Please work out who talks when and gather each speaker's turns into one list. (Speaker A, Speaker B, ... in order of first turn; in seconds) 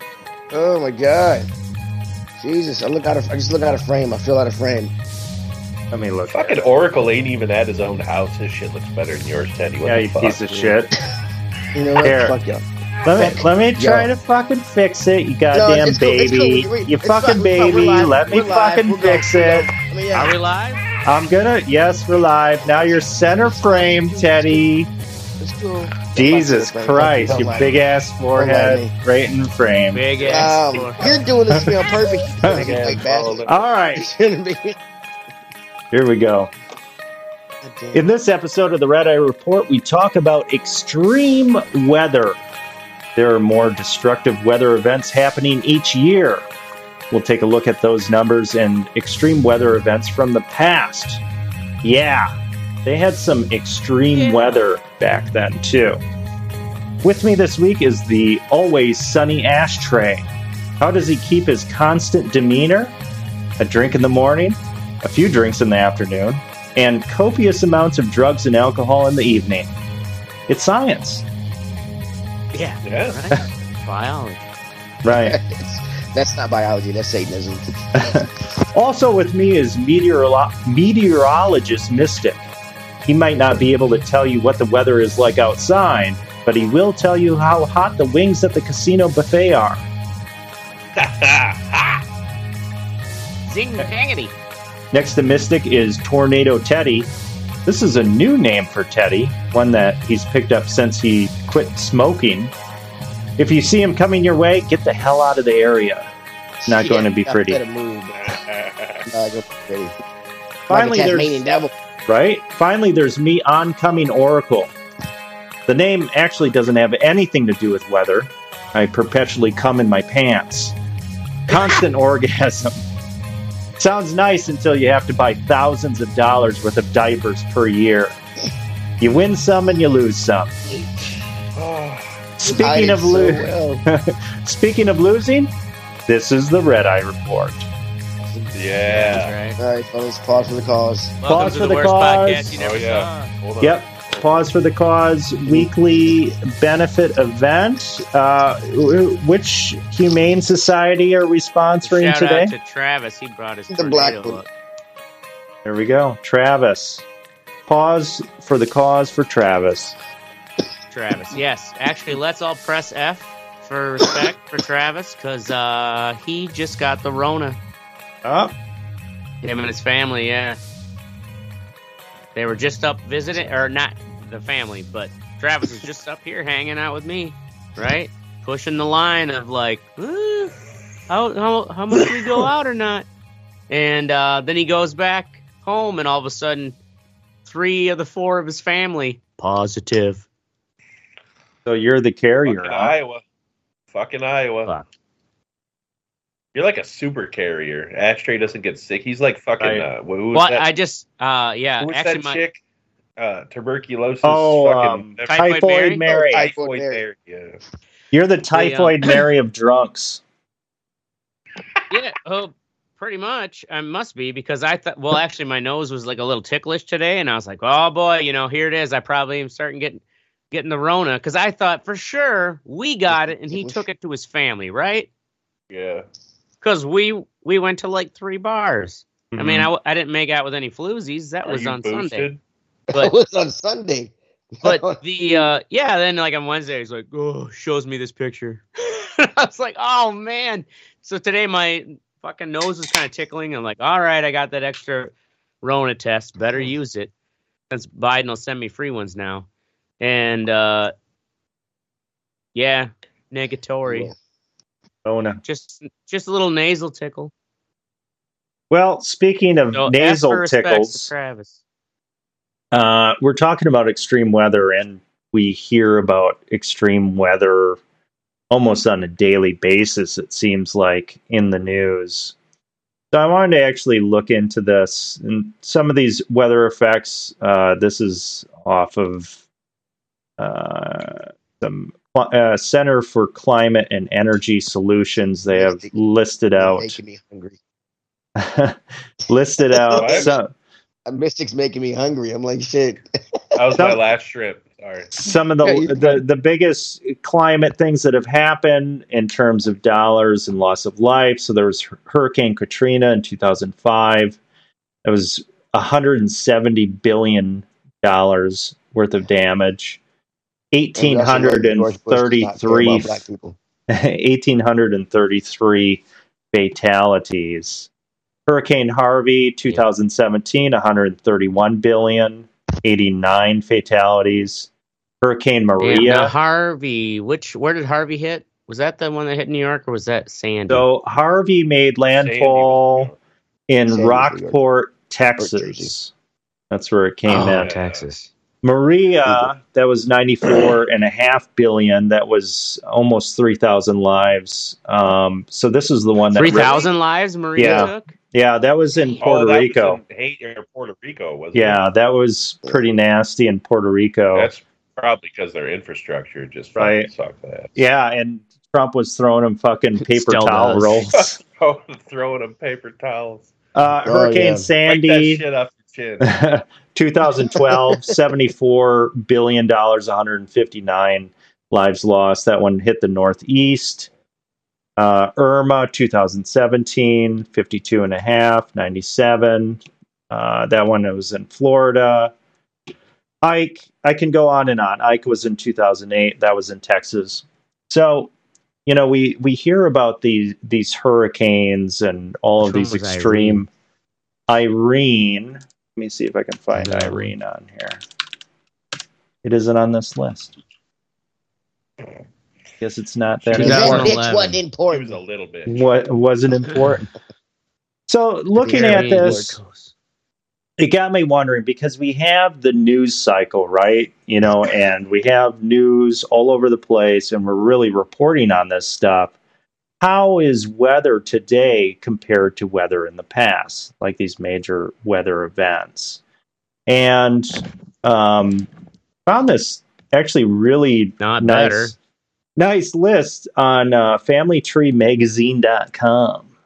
Speaker A: 0.5-1.5, 2.4-4.9, 10.5-10.8, 11.7-14.1, 15.5-20.4, 23.1-24.6, 25.4-27.7, 28.3-28.9, 30.2-34.8, 37.6-38.1, 75.1-78.3, 106.6-108.2, 109.1-109.9, 110.7-111.7, 132.4-133.8, 139.6-141.2, 145.4-146.1, 153.7-154.4, 206.1-207.0, 223.1-223.8, 232.9-235.5, 253.8-254.1, 285.5-285.9, 286.6-287.6, 289.7-290.3, 291.1-293.0, 295.6-296.2, 311.0-313.6, 333.9-334.6, 335.4-335.9, 364.0-364.7, 367.7-368.0, 403.5-405.2, 408.6-409.5
Speaker B: 5.9-6.7, 9.8-11.0, 12.0-12.3, 13.0-19.7, 21.0-24.9, 26.1-30.0, 31.5-34.1, 35.9-36.5, 37.9-42.4, 43.1-46.5, 47.1-51.2, 51.8-52.3, 52.8-56.0, 57.0-60.3, 60.8-62.9, 63.6-69.7, 70.5-71.2, 75.0-75.4, 78.0-82.5, 83.0-89.8, 94.9-97.1, 97.6-102.5, 103.4-106.1, 106.7-107.6, 110.7-111.4, 112.1-114.7, 115.7-120.7, 121.5-122.8, 123.8-128.2, 129.0-130.5, 132.4-135.5, 136.1-137.7, 141.2-142.5, 143.6-152.5, 155.6-157.0, 157.7-159.9, 168.2-168.5, 191.7-192.9, 199.6-199.8, 204.2-206.5, 208.1-210.2, 229.3-229.7, 255.0-255.4, 258.7-261.1, 262.7-267.8, 268.5-272.3, 273.1-279.4, 280.4-287.0, 288.4-290.5, 295.1-304.4, 305.0-310.0, 310.7-313.2, 313.9-317.9, 318.5-324.7, 325.2-326.3, 330.7-333.1, 333.7-336.1, 336.7-337.7, 338.6-346.9, 347.6-350.0, 351.5-354.5, 356.8-357.1, 357.8-361.4, 363.8-365.4, 366.2-374.1, 375.0-382.3, 383.4-388.3, 388.9-393.7, 394.5-398.0, 399.4-400.5, 402.8-404.2, 405.7-407.1, 408.1-409.6, 410.8-419.4, 420.0-426.2, 426.9-428.7, 429.2-431.9, 432.6-436.5
Speaker C: 6.3-10.4, 32.5-33.7, 72.8-73.2, 91.0-92.0, 108.2-109.1, 131.5-132.3, 138.5-139.3, 142.5-144.3, 192.4-193.2, 193.9-194.7, 196.5-200.7, 201.8-202.6, 203.2-205.5, 206.3-207.6, 225.7-226.0, 231.4-232.4, 290.0-290.3, 293.6-295.1, 332.1-333.2, 337.3-338.1, 349.2-351.8, 354.3-357.8, 361.1-363.5, 364.9-366.3, 404.9-405.9
Speaker D: 20.1-20.8, 29.9-31.2, 54.1-54.6, 72.5-74.4, 93.4-94.3, 138.9-139.6, 141.2-143.3, 151.8-154.5, 160.9-167.6, 169.4-170.6, 172.3-180.5, 181.1-183.1, 183.7-186.8, 187.4-190.2, 200.3-202.4, 205.3-206.0, 208.5-208.9, 211.9-225.1, 226.6-232.3, 234.6-247.1, 247.7-249.5, 250.0-250.9, 252.5-254.1, 255.4-257.3, 259.7-261.6, 325.8-330.9, 337.3-338.3, 346.3-348.1, 360.1-361.1, 392.6-393.6, 396.7-397.3, 403.5-404.6, 408.7-409.9, 431.2-431.9